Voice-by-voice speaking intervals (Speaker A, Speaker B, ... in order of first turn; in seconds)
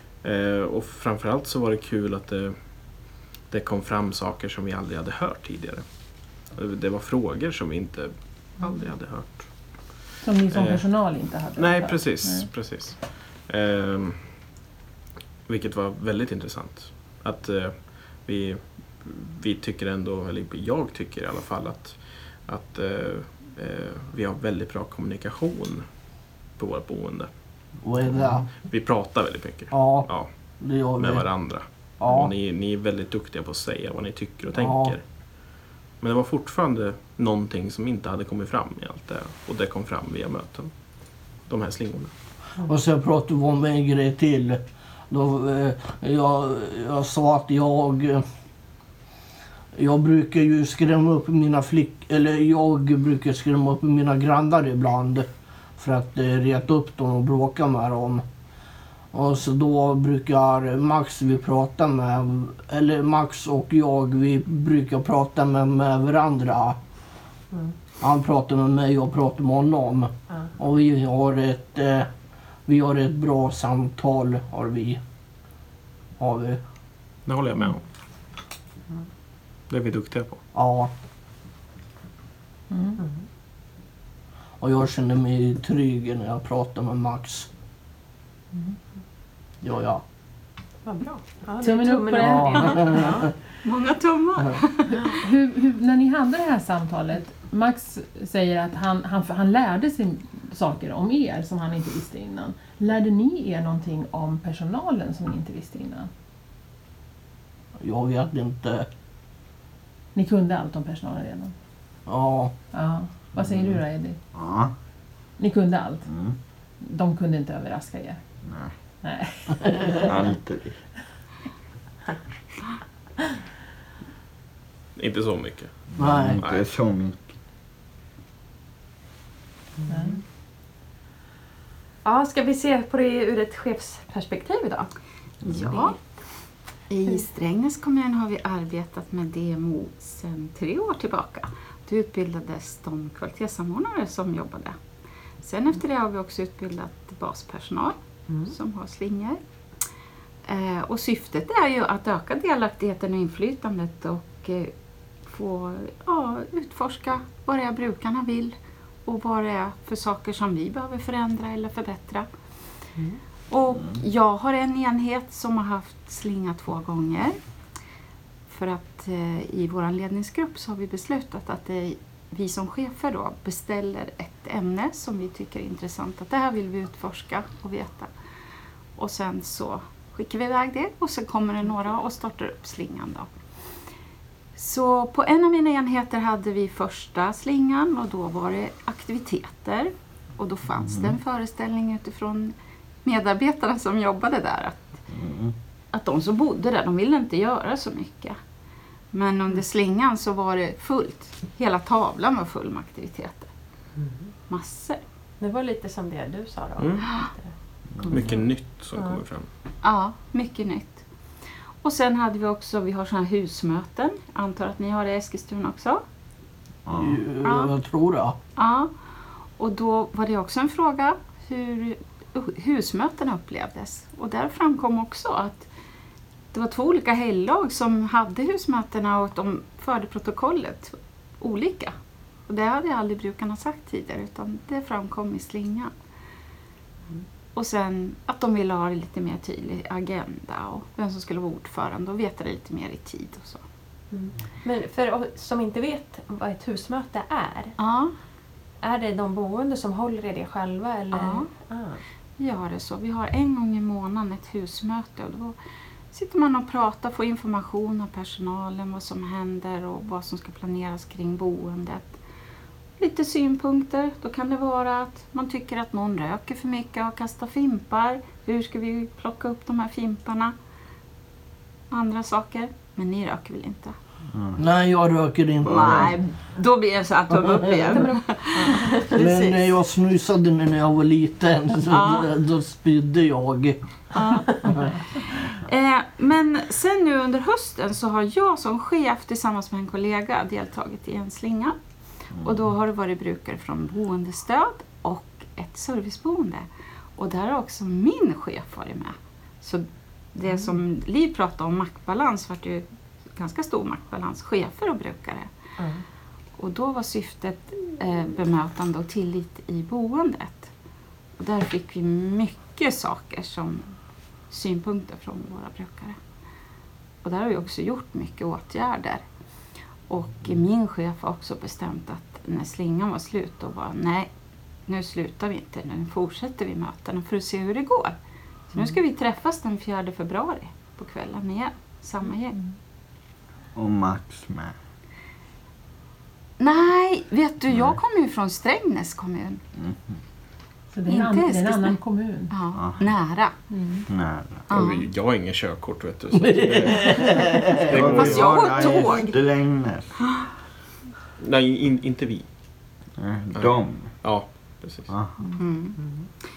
Speaker A: 0.2-14.5, 15.5-27.5, 28.5-42.1, 77.3-77.8, 79.7-80.4, 125.0-126.7, 206.8-207.1, 208.1-209.5, 344.7-348.7, 351.4-352.5, 353.6-355.1
Speaker B: 10.2-12.5, 82.7-83.0, 91.6-93.2, 95.0-106.1, 110.1-111.5, 112.7-114.2, 115.4-116.1, 116.8-118.2, 119.0-120.1, 129.9-130.2, 340.9-342.6, 343.7-344.1
Speaker C: 27.8-28.5, 29.7-32.3, 34.6-35.0, 42.7-48.2, 49.8-58.2, 59.1-66.8, 68.0-72.1, 72.7-75.0, 76.2-76.6, 80.5-80.9, 84.6-87.5, 89.6-90.0, 92.2-93.2, 107.8-108.9, 112.1-112.5, 126.0-126.4, 217.0-218.4, 274.6-276.1, 277.4-278.0, 279.1-283.8, 346.4-348.1
Speaker D: 90.8-93.3, 132.0-134.9, 135.6-136.2, 204.0-204.3, 205.4-208.4, 244.1-247.8, 248.8-252.0, 277.9-279.7, 300.5-300.8, 305.8-306.1, 356.0-356.3
Speaker E: 93.6-95.2, 135.5-144.8, 145.4-149.4, 150.5-162.3, 163.5-167.4, 168.5-178.1, 179.0-183.3, 184.6-195.0, 195.9-198.4, 199.1-203.5, 204.5-205.0, 209.8-211.1, 211.8-216.0, 217.4-217.7, 218.6-218.9, 219.6-225.7, 226.5-231.9, 232.5-235.9, 237.6-243.6, 247.8-248.1, 251.1-251.5, 252.4-255.6, 256.1-262.2, 263.0-270.5, 271.9-274.0, 275.7-279.0, 281.9-282.3, 284.1-291.8, 292.3-305.5, 306.6-310.7, 311.4-313.9, 314.5-316.2, 317.2-319.2, 320.1-324.3, 324.9-328.1, 328.7-332.6, 336.6-339.6, 341.1-342.0, 342.5-343.6, 344.7-345.1, 348.0-349.4, 355.6-356.2
Speaker F: 114.3-114.7, 116.1-116.4, 118.5-118.7, 120.0-120.8, 125.9-127.3, 190.8-191.2, 195.1-195.5, 216.9-217.2, 274.3-274.6, 275.6-276.1, 333.8-334.8, 337.7-338.0, 339.8-340.2, 342.8-343.2, 344.1-344.6, 347.9-350.1, 353.2-354.1, 355.1-355.4